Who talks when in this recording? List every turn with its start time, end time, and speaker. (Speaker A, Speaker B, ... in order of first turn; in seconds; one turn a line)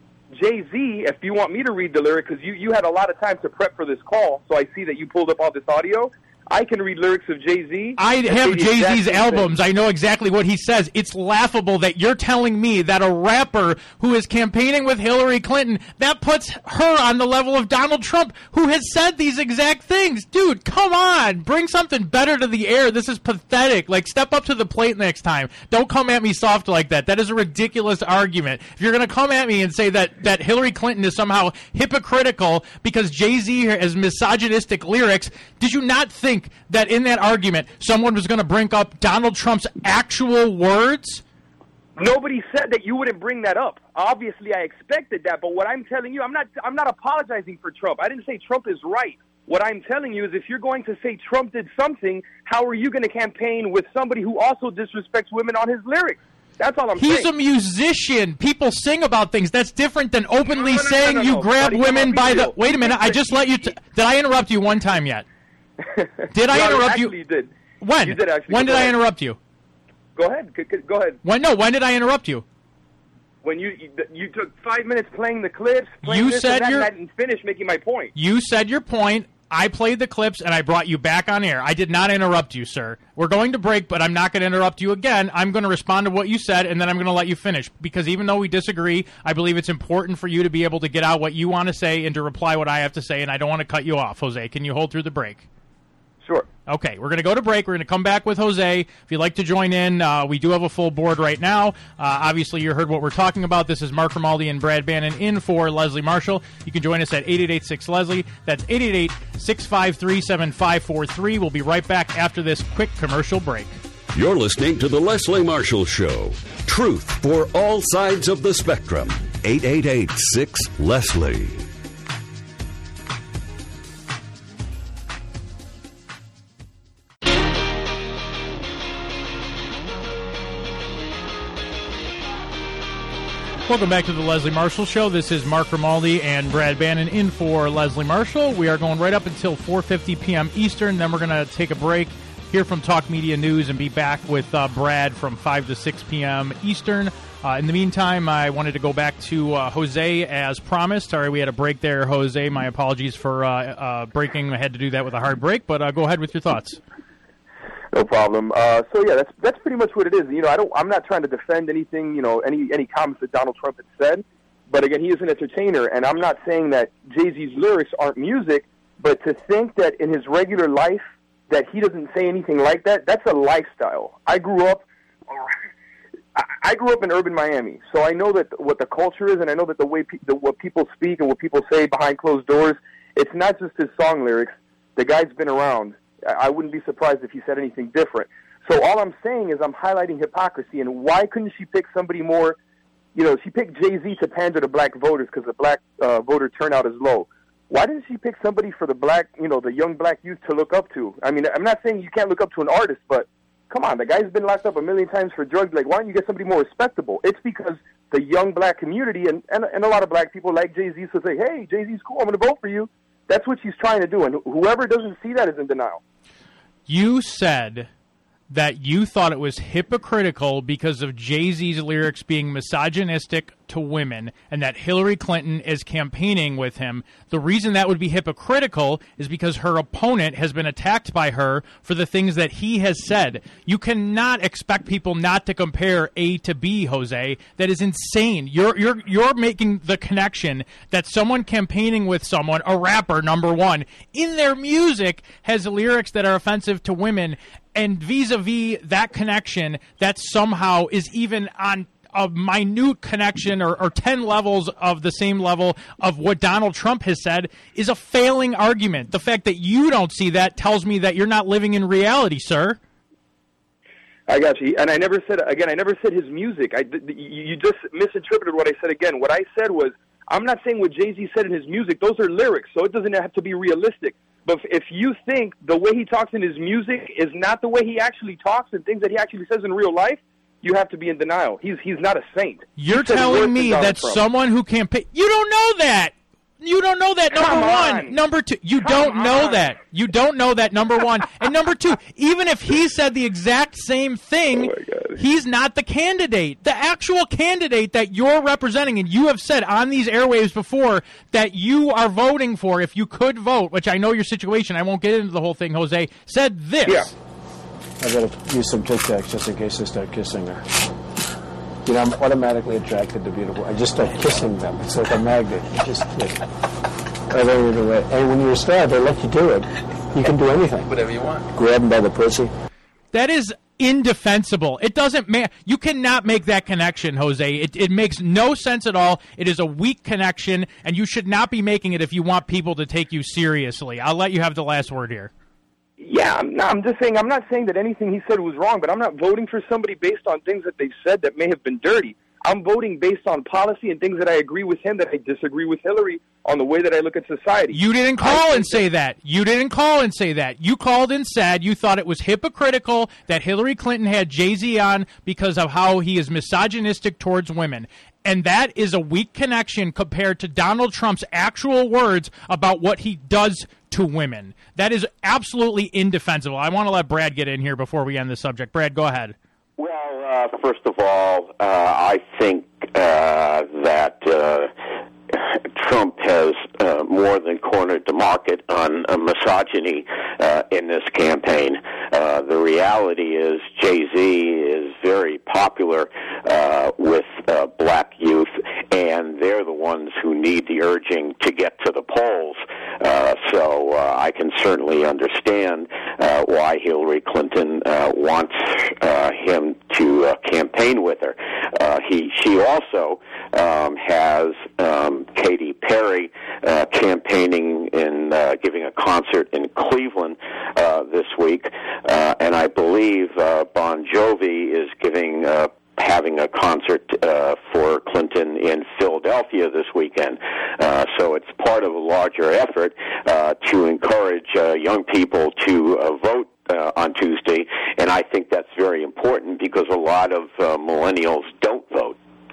Speaker A: 0.3-9.5
Speaker B: 8.0-41.2
Speaker A: 42.0-57.3
Speaker B: 57.0-65.3
Speaker A: 60.5-63.6
Speaker A: 65.8-67.5
Speaker B: 66.3-67.1
Speaker B: 67.8-69.4
Speaker A: 68.0-69.0
Speaker A: 70.2-71.2
Speaker B: 71.2-72.5
Speaker A: 73.4-78.1
Speaker B: 76.0-76.9
Speaker B: 78.2-95.5
Speaker B: 96.7-113.8
Speaker C: 114.2-121.7
Speaker B: 133.7-156.8
Speaker A: 157.9-174.8
Speaker A: 176.4-192.6
Speaker A: 193.2-216.0
Speaker B: 216.9-217.9
Speaker B: 218.5-262.8
Speaker A: 264.3-284.2
Speaker B: 282.8-307.1
Speaker A: 287.3-288.2
Speaker A: 288.8-289.7
Speaker A: 294.6-295.2
Speaker D: 308.0-310.6
Speaker D: 311.9-316.4
Speaker D: 317.3-322.5
Speaker B: 323.1-335.3
Speaker A: 336.0-348.8
Speaker B: 347.7-369.4
Speaker E: 369.8-374.7
Speaker E: 375.3-432.2